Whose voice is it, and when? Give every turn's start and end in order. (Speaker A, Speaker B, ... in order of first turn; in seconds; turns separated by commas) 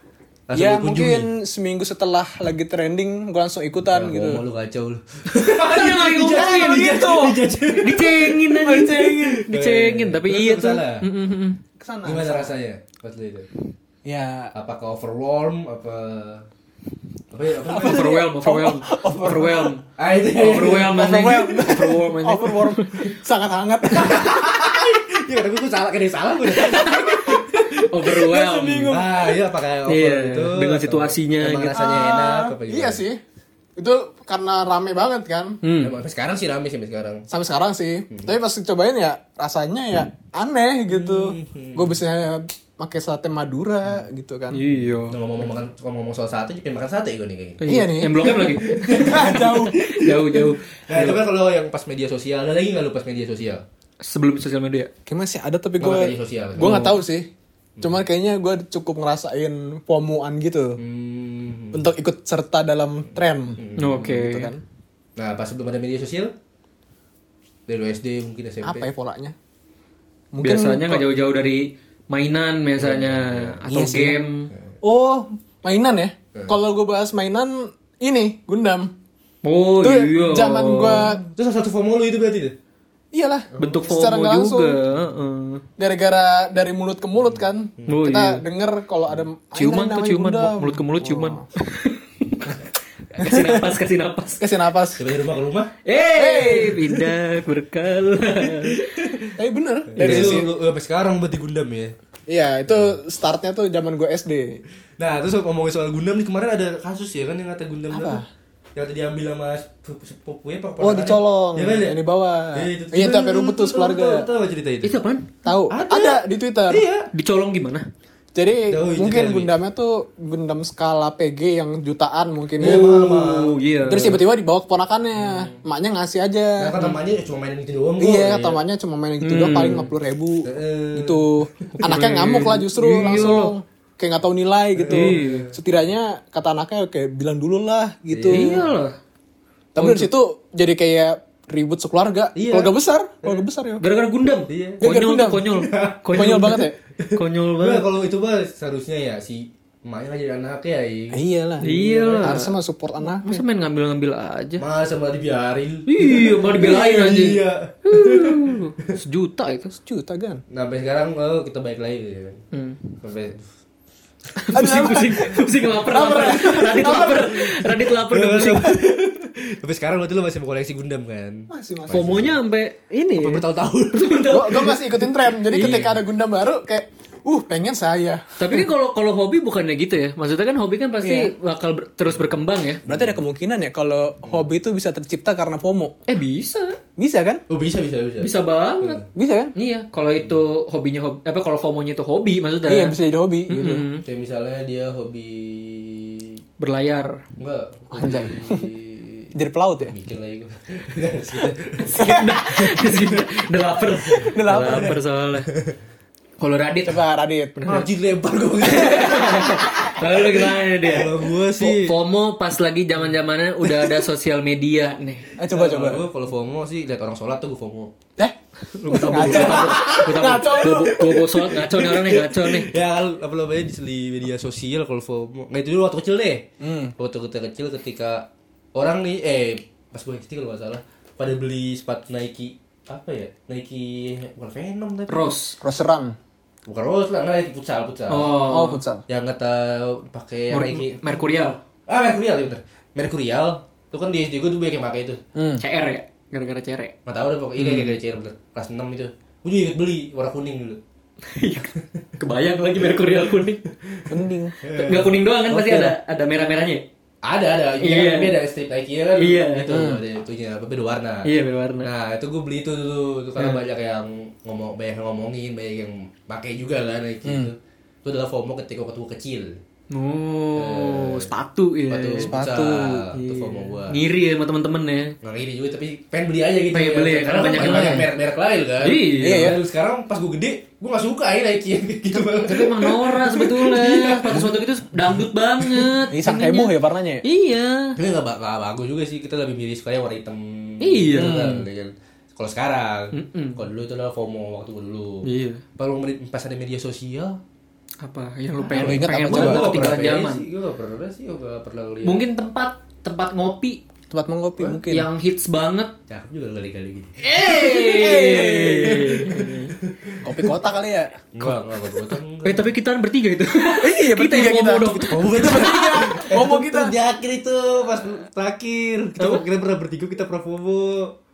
Speaker A: 0.5-1.3, Speaker B: 0.5-4.4, Speaker A: 3.9-8.4, Speaker C: 5.6-7.0, Speaker B: 5.7-7.4, Speaker C: 7.8-11.6, Speaker B: 8.5-9.4, Speaker A: 9.5-11.1, Speaker B: 11.8-12.5, Speaker A: 12.1-13.5, Speaker B: 14.1-14.5, Speaker A: 14.5-16.4, Speaker A: 17.3-18.2, Speaker B: 17.7-19.8, Speaker C: 17.7-23.0, Speaker A: 20.0-21.7, Speaker B: 20.9-24.9, Speaker A: 23.9-27.9, Speaker C: 26.6-29.0, Speaker B: 26.6-29.3, Speaker A: 28.9-33.0, Speaker C: 29.9-31.8, Speaker B: 31.7-33.2, Speaker B: 33.8-35.6, Speaker C: 35.6-36.0, Speaker A: 35.8-37.3, Speaker B: 37.3-44.6, Speaker A: 40.9-41.9, Speaker C: 44.5-45.2, Speaker A: 45.1-47.6, Speaker C: 47.6-51.2, Speaker B: 47.7-50.5, Speaker A: 48.3-50.2, Speaker A: 50.9-53.6, Speaker C: 54.0-54.9, Speaker B: 55.1-57.3, Speaker A: 55.8-57.0, Speaker C: 56.6-56.9, Speaker B: 57.8-60.8, Speaker A: 60.8-61.9, Speaker B: 61.7-64.6, Speaker A: 63.6-64.2, Speaker C: 63.8-64.5, Speaker A: 65.2-66.3, Speaker A: 67.7-68.9, Speaker B: 68.6-69.3, Speaker B: 70.3-71.0, Speaker C: 70.4-74.5, Speaker A: 72.8-73.6, Speaker B: 73.7-74.2, Speaker B: 74.8-78.9, Speaker C: 79.4-81.2, Speaker B: 79.8-81.2, Speaker A: 81.2-82.6, Speaker B: 83.1-84.8, Speaker A: 83.5-83.9, Speaker C: 83.6-85.6, Speaker B: 85.8-91.5, Speaker A: 87.3-87.9, Speaker C: 87.9-88.4, Speaker C: 89.6-92.6, Speaker C: 93.1-94.5, Speaker B: 93.2-93.8, Speaker B: 94.4-95.1, Speaker A: 95.0-95.7, Speaker C: 95.8-99.1, Speaker B: 96.2-97.1, Speaker A: 98.7-99.3, Speaker B: 99.4-100.5, Speaker A: 99.9-101.9, Speaker C: 100.0-100.5, Speaker B: 102.3-104.6, Speaker A: 105.0-108.2, Speaker B: 107.9-108.2, Speaker A: 108.8-112.0, Speaker B: 110.8-114.3, Speaker A: 112.5-114.9, Speaker C: 114.8-115.3, Speaker B: 115.4-116.9, Speaker A: 115.7-117.1, Speaker C: 117.1-117.8, Speaker B: 118.3-122.8, Speaker A: 118.7-119.5, Speaker A: 122.6-123.5, Speaker C: 122.6-124.2, Speaker B: 123.9-126.8, Speaker A: 125.2-125.5, Speaker A: 126.6-128.6, Speaker B: 128.0-138.6, Speaker C: 129.2-129.9, Speaker A: 130.4-131.7, Speaker C: 131.7-133.6, Speaker A: 134.8-135.5, Speaker C: 134.9-135.5, Speaker A: 138.1-138.8, Speaker C: 138.3-138.9, Speaker B: 139.8-143.8, Speaker A: 142.3-143.4, Speaker C: 143.8-147.9, Speaker A: 144.5-144.9, Speaker B: 144.8-145.5, Speaker A: 145.6-146.1, Speaker B: 146.1-146.8, Speaker A: 147.0-152.4, Speaker B: 151.1-153.4, Speaker C: 151.6-152.5, Speaker C: 153.1-154.6, Speaker A: 154.6-158.9, Speaker C: 155.9-159.8, Speaker B: 156.6-157.2, Speaker B: 159.7-160.4, Speaker A: 160.5-162.4, Speaker C: 162.5-163.0, Speaker A: 163.0-163.5, Speaker C: 164.4-168.8, Speaker B: 164.5-167.9, Speaker A: 168.1-172.4, Speaker B: 171.5-172.3, Speaker C: 171.9-175.9, Speaker A: 173.2-174.5, Speaker B: 174.3-178.7, Speaker A: 175.6-175.9, Speaker C: 178.4-182.8, Speaker B: 181.0-181.3, Speaker A: 182.9-183.2, Speaker B: 182.9-186.0, Speaker C: 186.1-186.8, Speaker B: 187.0-187.4, Speaker A: 187.5-189.1, Speaker C: 188.2-189.0, Speaker B: 189.1-189.5, Speaker C: 189.6-192.9, Speaker B: 192.7-193.8, Speaker C: 193.5-194.1, Speaker A: 194.0-196.4, Speaker C: 196.6-197.2, Speaker A: 197.4-203.2, Speaker B: 197.9-198.7, Speaker B: 199.3-199.9, Speaker C: 201.9-205.5, Speaker B: 202.0-202.6, Speaker A: 204.1-204.9, Speaker B: 204.3-205.0, Speaker C: 206.4-207.0, Speaker B: 206.8-207.7, Speaker C: 207.6-207.9, Speaker A: 207.7-210.2, Speaker C: 208.6-215.3, Speaker B: 208.9-209.9, Speaker A: 210.8-212.0, Speaker B: 215.4-216.1, Speaker A: 215.5-217.9, Speaker C: 218.8-222.7, Speaker B: 218.9-222.5, Speaker A: 219.2-220.0, Speaker A: 222.6-235.3, Speaker B: 226.6-226.9, Speaker C: 235.1-235.6, Speaker B: 235.6-236.2, Speaker A: 236.7-238.3, Speaker C: 238.1-238.8, Speaker B: 238.5-239.0, Speaker A: 239.1-245.2, Speaker C: 240.5-241.6, Speaker B: 245.3-245.6, Speaker C: 245.6-246.9, Speaker A: 247.1-250.8, Speaker C: 247.6-247.9, Speaker C: 251.3-253.6, Speaker A: 253.8-255.9, Speaker B: 254.1-254.6, Speaker C: 254.7-256.8, Speaker A: 257.2-261.3, Speaker C: 257.8-258.4, Speaker C: 259.2-259.7, Speaker B: 259.7-260.0, Speaker C: 261.2-261.9, Speaker A: 261.8-269.6, Speaker B: 267.2-267.5, Speaker C: 269.9-272.3, Speaker A: 270.6-271.3, Speaker A: 271.9-274.0, Speaker B: 272.2-273.1, Speaker C: 273.1-275.1, Speaker A: 275.2-284.5, Speaker C: 276.7-278.1, Speaker B: 277.6-278.1, Speaker C: 278.8-279.6, Speaker B: 279.2-279.6, Speaker C: 282.2-288.0, Speaker A: 285.6-286.0, Speaker B: 286.1-287.2, Speaker A: 288.0-295.3, Speaker C: 290.8-291.5, Speaker B: 291.1-291.6, Speaker C: 293.1-293.6, Speaker C: 295.2-295.6, Speaker A: 295.8-297.4, Speaker C: 298.0-300.4, Speaker B: 298.7-299.9, Speaker A: 298.8-302.2, Speaker C: 302.0-303.8, Speaker B: 304.1-305.1, Speaker C: 304.9-305.9, Speaker A: 306.1-307.2, Speaker B: 307.2-309.3, Speaker C: 307.2-309.8, Speaker A: 308.7-310.2, Speaker B: 310.2-311.5, Speaker A: 311.3-312.7, Speaker C: 312.4-316.2, Speaker B: 313.8-316.9, Speaker A: 314.9-321.1, Speaker C: 319.2-319.4